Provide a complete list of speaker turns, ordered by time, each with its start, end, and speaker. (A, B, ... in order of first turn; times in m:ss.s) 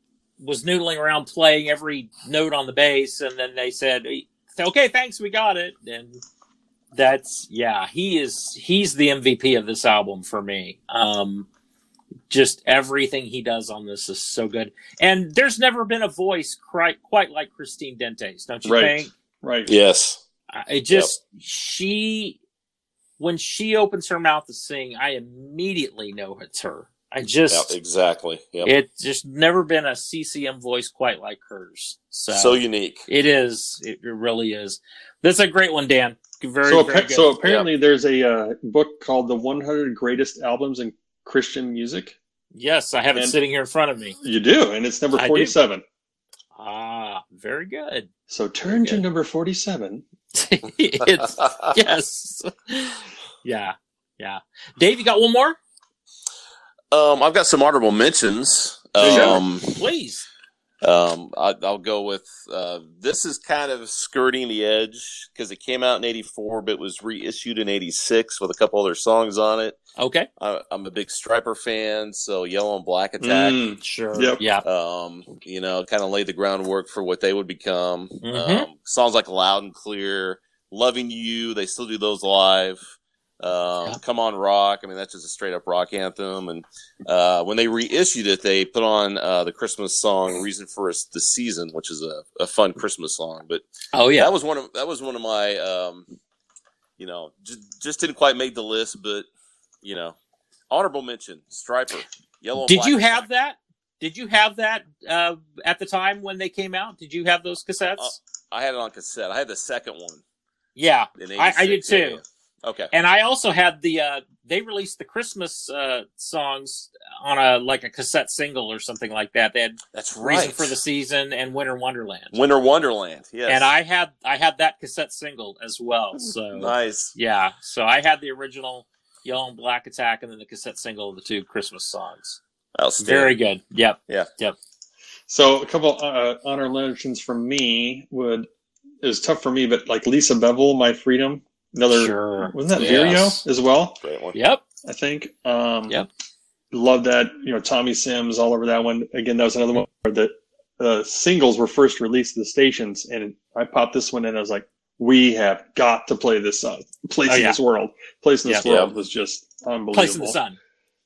0:00.4-0:06.2 A
0:06.9-0:11.5 A
0:12.3-0:19.1 A
0:18.6-0:19.8 B
0:19.7-0:20.2 C
0:20.5-0:22.4 A
0:23.2-0:27.8 A
0:27.5-0:28.7 C
0:28.6-0:37.7 A
0:32.3-0:33.1 C
0:36.6-0:42.2 B
0:42.5-0:44.2 A
0:44.2-0:45.8 B
0:45.2-0:45.6 A
0:46.6-0:48.1 A
0:48.3-0:50.0 B
0:48.7-0:49.0 A
0:50.3-0:55.6 A
0:51.4-0:51.7 C
0:56.9-0:59.8 C
0:59.0-0:59.4 B
0:59.0-1:00.3 A
1:00.8-1:09.8 C
1:10.0-1:10.3 A
1:10.4-1:13.6 C
1:13.2-1:14.4 B
1:13.8-1:14.6 A
1:14.6-1:33.6 C
1:18.2-1:18.7 A
1:33.9-1:34.3 A
1:34.2-1:36.1 C
1:37.0-1:39.3 C
1:39.8-1:40.2 C
1:40.7-1:43.2 C
1:42.6-1:48.2 A
1:48.0-1:50.2 C
1:50.8-1:52.2 A
1:51.2-1:52.9 C
1:52.9-2:02.4 A
1:59.9-2:00.8 C
2:02.3-2:03.7 C
2:03.5-2:12.4 A
2:06.2-2:07.1 C
2:12.8-2:13.3 C
2:13.0-2:14.6 A
2:15.3-2:18.5 B
2:19.0-2:24.0 B
2:21.9-2:23.4 A
2:22.7-2:23.3 C
2:24.0-2:24.4 C
2:24.3-2:24.6 A
2:24.8-2:26.0 B
2:26.7-2:40.4 B
2:37.3-2:37.6 A
2:38.6-2:38.9 C
2:39.9-2:40.6 A